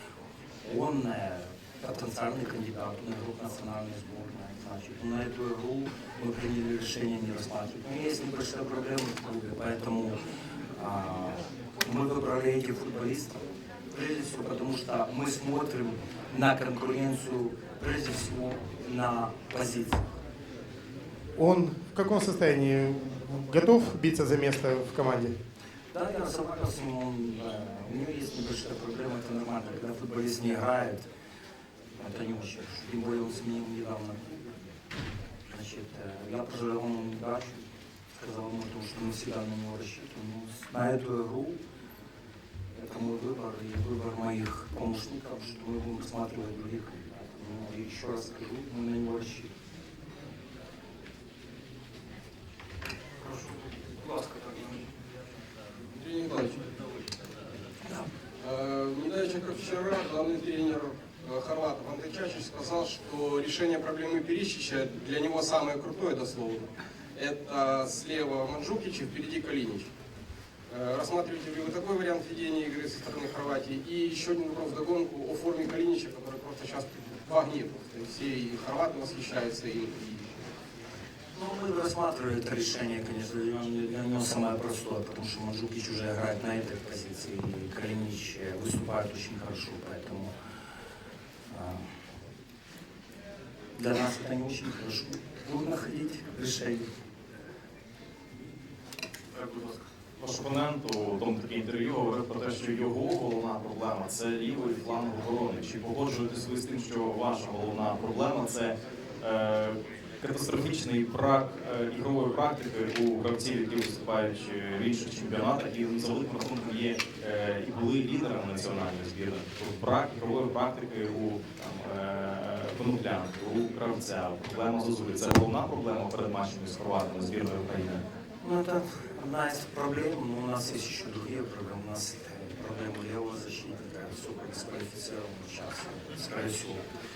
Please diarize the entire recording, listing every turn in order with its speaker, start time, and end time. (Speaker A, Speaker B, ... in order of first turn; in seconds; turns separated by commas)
Speaker A: 0.6-10.2, Speaker A: 10.8-20.0, Speaker B: 21.4-25.4, Speaker A: 25.9-31.1, Speaker A: 32.0-34.5, Speaker A: 35.5-41.6, Speaker A: 42.7-49.5, Speaker C: 53.2-54.8, Speaker D: 56.0-56.6, Speaker D: 58.4-69.9, Speaker D: 70.7-80.3, Speaker A: 81.3-90.3, Speaker A: 91.5-91.9, Speaker A: 93.8-96.9, Speaker C: 99.3-99.8, Speaker E: 100.2-128.0, Speaker A: 128.4-136.8